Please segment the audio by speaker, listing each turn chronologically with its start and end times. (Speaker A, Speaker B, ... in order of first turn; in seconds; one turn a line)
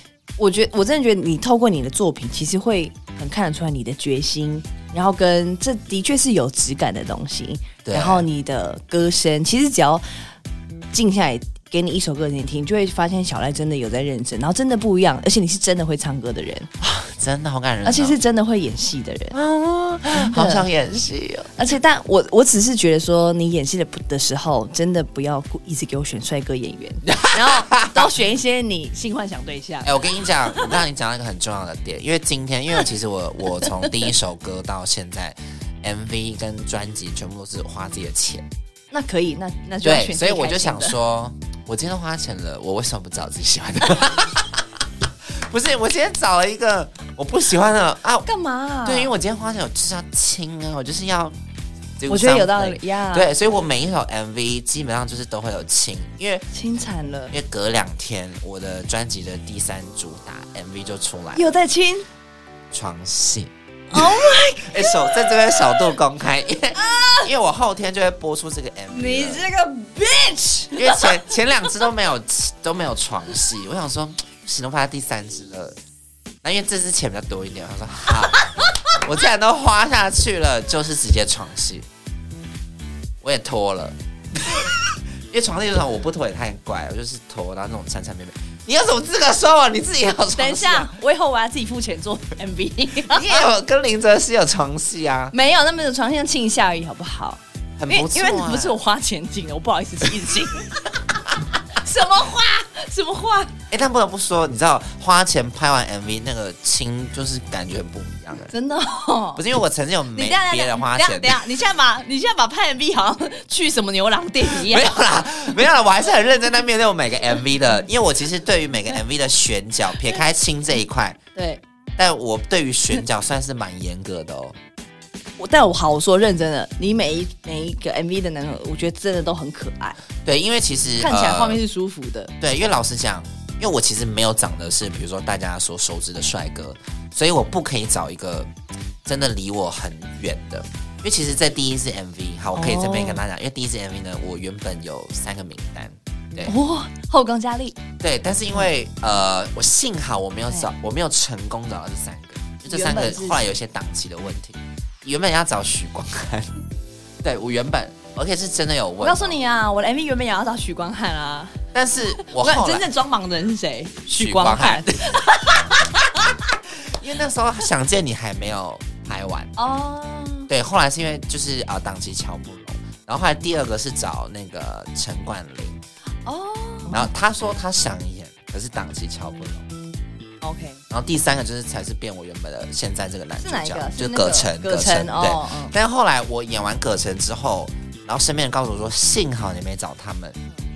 Speaker A: 0.4-10.0
Speaker B: 7.8-8.3
Speaker A: 10.9-16.7
Speaker B: 16.8-18.2
Speaker A: 17.8-19.4
Speaker B: 19.3-21.5
Speaker A: 20.1-20.7
Speaker A: 21.6-30.8
Speaker B: 27.1-28.1
Speaker B: 29.8-38.5
Speaker A: 38.9-41.0
Speaker B: 39.8-44.8
Speaker B: 45.3-48.3
Speaker A: 48.2-49.1
Speaker B: 48.8-51.3
Speaker B: 52.0-56.5
Speaker A: 52.1-53.3
Speaker A: 56.5-57.3
Speaker B: 57.3-61.5
Speaker A: 61.3-62.1
Speaker B: 62.7-69.4
Speaker A: 63.9-65.7
Speaker A: 66.8-67.3
Speaker A: 68.9-71.7
Speaker B: 70.8-75.8
Speaker B: 76.4-78.4
Speaker A: 78.3-79.0
Speaker B: 78.9-81.9
Speaker B: 83.2-90.9
Speaker A: 90.3-93.5
Speaker B: 93.1-95.3
Speaker A: 95.3-103.5
Speaker B: 97.8-98.8
Speaker B: 103.7-108.5
Speaker A: 108.4-109.4
Speaker B: 109.3-111.5
Speaker A: 110.1-115.0
Speaker B: 114.4-121.2
Speaker A: 121.3-121.6
Speaker B: 122.0-124.6
Speaker A: 125.4-130.0
Speaker B: 130.2-131.6
Speaker A: 131.0-132.3
Speaker B: 132.4-138.5
Speaker B: 139.0-146.5
Speaker A: 142.5-143.2
Speaker A: 146.4-147.8
Speaker B: 148.0-156.6
Speaker A: 152.7-153.4
Speaker B: 157.2-159.3
Speaker A: 159.0-161.6
Speaker B: 161.7-162.9
Speaker A: 162.1-166.5
Speaker B: 164.1-165.3
Speaker B: 166.8-169.5
Speaker A: 169.6-170.5
Speaker B: 170.5-175.8
Speaker A: 176.2-177.1
Speaker B: 176.9-179.7
Speaker A: 180.4-180.8
Speaker B: 180.9-190.4
Speaker A: 183.4-185.7